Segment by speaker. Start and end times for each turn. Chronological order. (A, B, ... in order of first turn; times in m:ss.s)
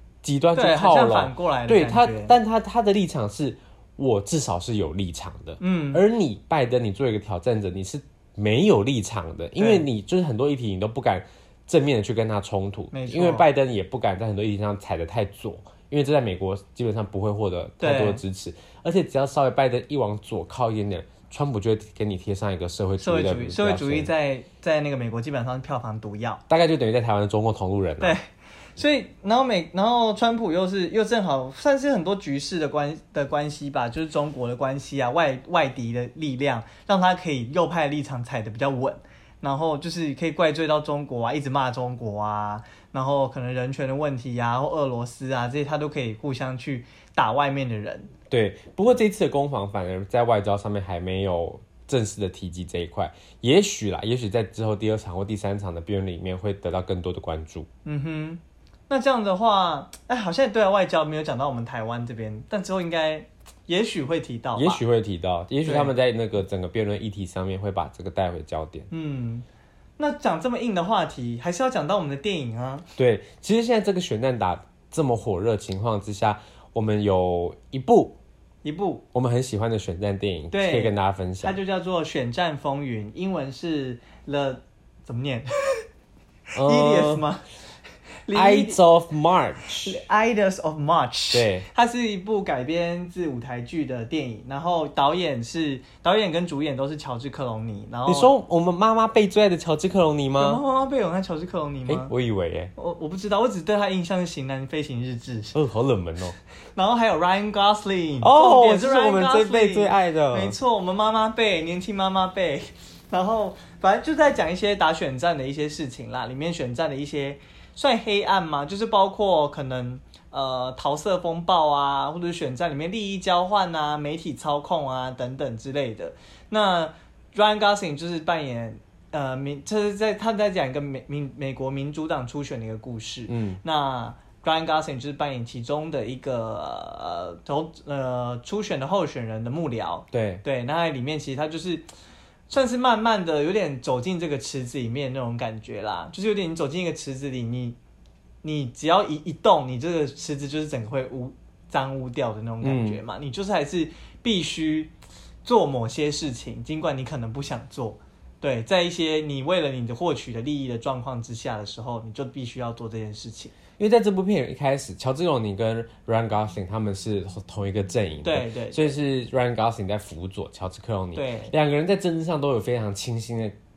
0:00.2-0:24.1 A
0:00.6-0:02.4 B
0:05.6-0:06.0 B
0:09.6-0:09.8 B
0:12.9-0:13.5 B
0:17.8-0:18.2 B
0:23.0-0:26.4 B
0:26.5-0:28.2 A
0:28.0-0:48.1 B
0:48.3-0:57.7 A
0:57.8-1:04.8 B
1:04.6-1:08.9 A
1:05.6-1:05.9 B
1:08.9-1:09.4 B
1:10.0-1:12.8 B
1:13.0-1:18.2 A
1:18.6-1:19.0 B
1:19.1-1:21.6 A
1:20.5-1:25.8 B
1:26.6-1:27.5 B
1:26.6-1:27.2 A
1:28.2-1:28.8 B
1:28.3-1:30.0 A
1:29.8-1:38.3 B
1:31.3-1:31.7 A
1:38.1-1:40.6 A
1:40.4-1:42.1 B
1:41.9-1:42.7 A
1:42.8-1:45.6 B
1:45.5-1:46.4 A
1:46.8-2:21.9 B
1:48.2-1:50.6 A
2:13.3-2:13.6 A
2:20.1-2:20.4 A
2:22.5-2:27.8 B
2:28.4-2:34.9 B
2:32.6-2:33.0 A
2:35.4-2:43.5 B
2:43.8-2:53.6 A
2:48.2-2:48.9 B
2:51.2-2:51.5 B